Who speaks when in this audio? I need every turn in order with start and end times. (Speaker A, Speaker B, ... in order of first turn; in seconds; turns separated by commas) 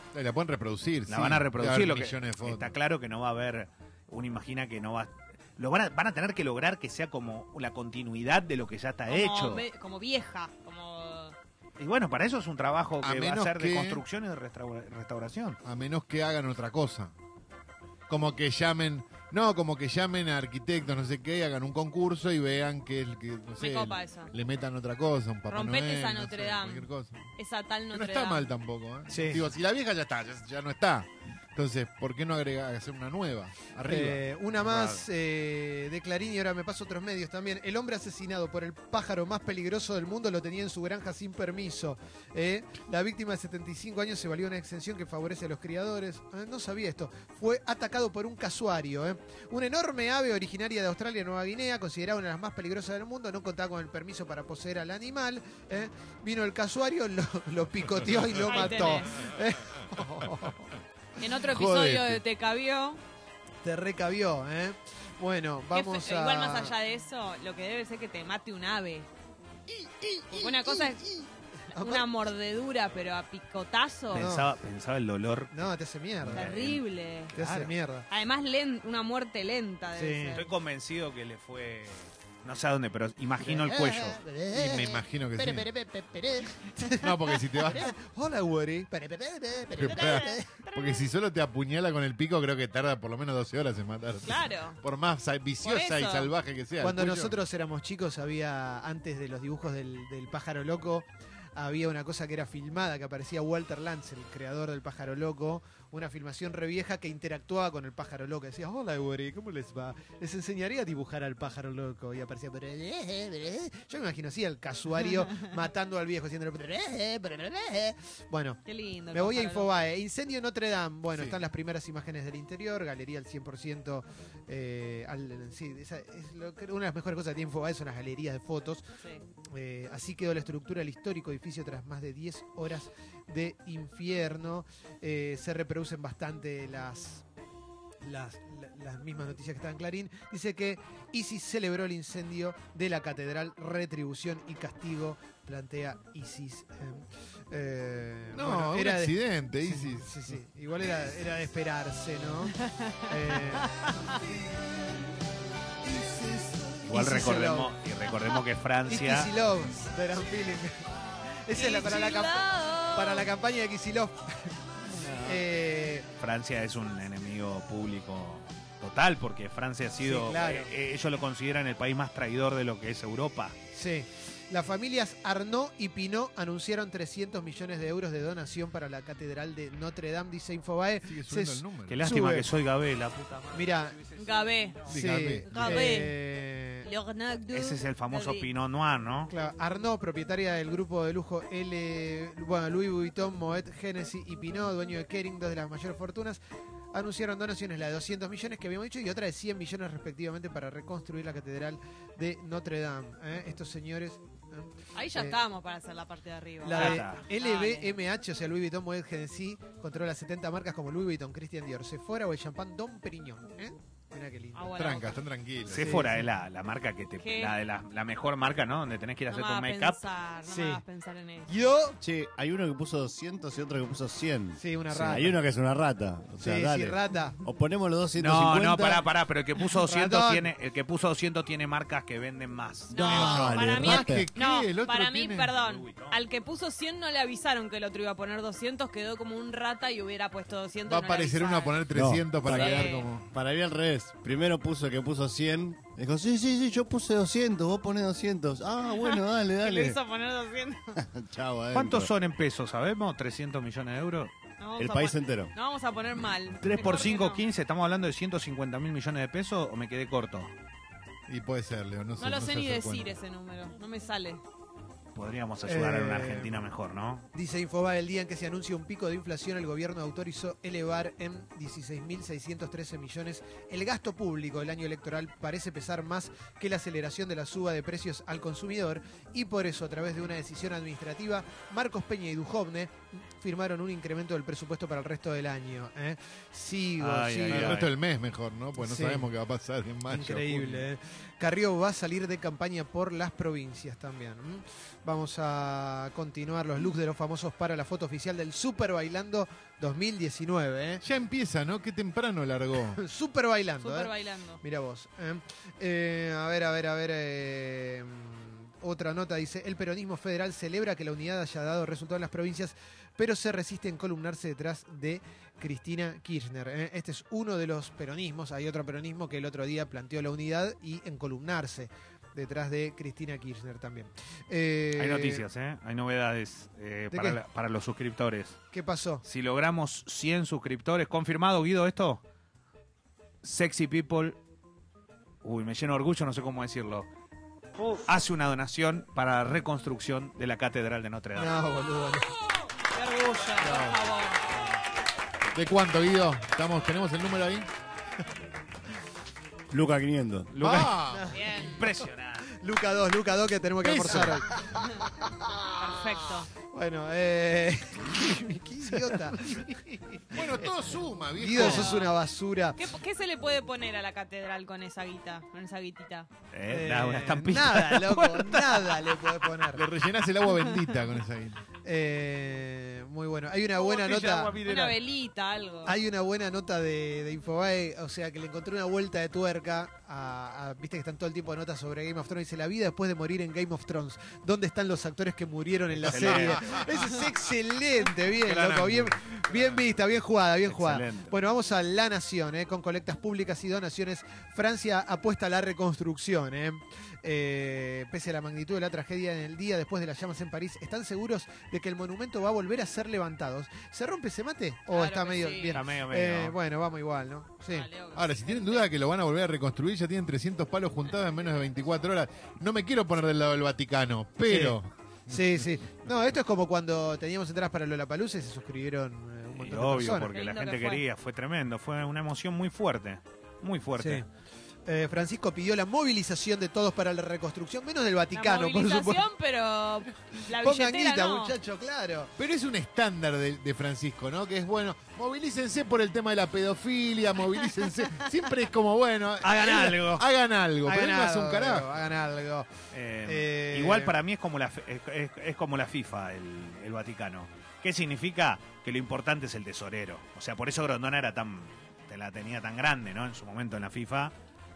Speaker A: 0.1-2.7, Speaker B: 1.1-9.7, Speaker C: 9.1-11.3, Speaker B: 11.8-15.6, Speaker A: 13.0-14.0, Speaker A: 15.6-17.1, Speaker A: 18.1-27.3, Speaker C: 23.6-24.3, Speaker C: 25.5-28.5, Speaker A: 27.9-34.2, Speaker D: 29.1-29.5, Speaker D: 33.9-60.7, Speaker B: 34.6-35.0, Speaker C: 58.5-59.3, Speaker C: 61.2-63.0, Speaker A: 61.4-62.2, Speaker D: 63.6-66.7, Speaker C: 65.7-69.1, Speaker C: 70.3-71.1, Speaker D: 70.7-71.1, Speaker D: 71.7-72.1, Speaker C: 71.7-74.3, Speaker B: 74.1-75.7, Speaker D: 74.1-74.5, Speaker D: 75.5-76.6, Speaker B: 76.2-77.7, Speaker C: 76.3-77.3, Speaker D: 77.3-78.1, Speaker C: 78.1-80.5, Speaker D: 80.0-80.4, Speaker B: 80.3-84.2, Speaker D: 83.4-90.5, Speaker A: 84.5-85.7, Speaker A: 87.0-88.0, Speaker A: 89.7-97.4, Speaker C: 89.8-91.0, Speaker C: 94.2-94.8, Speaker C: 95.6-96.3, Speaker D: 96.8-118.6, Speaker C: 118.7-119.7, Speaker D: 119.1-128.8, Speaker A: 121.1-121.4, Speaker D: 129.5-137.2, Speaker D: 138.0-154.0, Speaker A: 148.3-150.4, Speaker C: 152.6-154.2, Speaker D: 155.8-157.7, Speaker B: 156.8-159.3, Speaker D: 158.9-160.8, Speaker D: 161.4-166.1, Speaker C: 161.5-163.3, Speaker B: 164.9-165.4, Speaker B: 166.2-173.6, Speaker D: 170.0-170.7, Speaker D: 173.7-182.5, Speaker A: 181.0-182.1, Speaker B: 181.9-183.8, Speaker D: 183.5-184.0, Speaker C: 184.2-184.9, Speaker D: 184.9-186.9, Speaker A: 184.9-185.9, Speaker C: 185.5-186.2, Speaker C: 186.8-188.5, Speaker B: 187.5-189.3, Speaker D: 189.3-196.4, Speaker D: 196.9-205.4, Speaker C: 204.9-207.9, Speaker D: 206.6-214.8, Speaker B: 206.7-207.2, Speaker C: 214.5-215.2, Speaker A: 214.7-216.1, Speaker B: 215.7-220.0, Speaker D: 215.7-216.2, Speaker C: 217.2-217.6, Speaker C: 219.3-221.5, Speaker D: 220.5-220.8, Speaker D: 221.5-222.0, Speaker E: 222.0-229.0, Speaker D: 224.6-225.4, Speaker D: 226.4-227.4, Speaker B: 228.2-233.7, Speaker D: 229.8-230.5, Speaker C: 232.9-241.8, Speaker E: 232.9-234.3, Speaker A: 233.1-235.6, Speaker B: 235.5-236.2, Speaker A: 240.9-243.3, Speaker E: 241.9-250.0, Speaker C: 242.5-243.1, Speaker C: 248.9-251.0, Speaker E: 251.0-252.1, Speaker B: 251.7-254.3, Speaker C: 254.6-257.4, Speaker E: 254.8-255.5, Speaker B: 256.6-260.5, Speaker A: 261.3-263.1, Speaker C: 262.2-264.4, Speaker B: 265.1-267.3, Speaker D: 265.6-266.6, Speaker D: 267.3-287.8, Speaker B: 287.0-287.9, Speaker A: 287.5-290.9, Speaker D: 288.8-289.3, Speaker D: 290.1-301.0, Speaker A: 301.0-303.0, Speaker D: 302.9-325.4, Speaker C: 303.8-304.6, Speaker B: 325.0-328.6, Speaker D: 327.1-327.4, Speaker D: 328.7-329.2, Speaker B: 329.2-332.2, Speaker B: 333.4-334.4, Speaker B: 335.4-337.1, Speaker B: 337.9-341.5, Speaker D: 341.4-342.3, Speaker C: 342.9-344.5, Speaker A: 343.6-344.0, Speaker A: 345.5-347.7, Speaker E: 349.7-350.6, Speaker B: 350.5-352.5, Speaker A: 350.6-351.3, Speaker D: 351.1-351.6, Speaker C: 351.3-351.9, Speaker D: 352.5-354.6, Speaker A: 353.8-354.5, Speaker C: 355.8-356.5, Speaker D: 356.7-359.7, Speaker A: 360.3-362.0, Speaker D: 361.4-362.9, Speaker C: 361.6-362.2, Speaker C: 362.8-366.3, Speaker B: 366.5-369.1, Speaker D: 366.7-369.9, Speaker A: 369.7-371.6, Speaker D: 371.8-374.6, Speaker B: 373.8-375.0, Speaker C: 374.6-376.0, Speaker D: 375.9-407.9, Speaker B: 386.0-387.2, Speaker A: 386.1-386.9, Speaker B: 388.5-389.1, Speaker A: 388.6-388.9, Speaker B: 390.7-391.3, Speaker C: 404.9-405.8, Speaker B: 405.7-406.6, Speaker C: 407.7-408.9, Speaker A: 408.1-415.7, Speaker D: 414.5-420.3, Speaker B: 419.6-424.2, Speaker C: 420.3-421.0, Speaker D: 424.0-424.2, Speaker D: 424.9-429.2, Speaker C: 428.3-431.5, Speaker D: 430.3-432.3, Speaker A: 432.4-442.0, Speaker D: 439.4-440.2, Speaker D: 440.8-442.7, Speaker B: 442.9-454.3, Speaker D: 443.2-444.1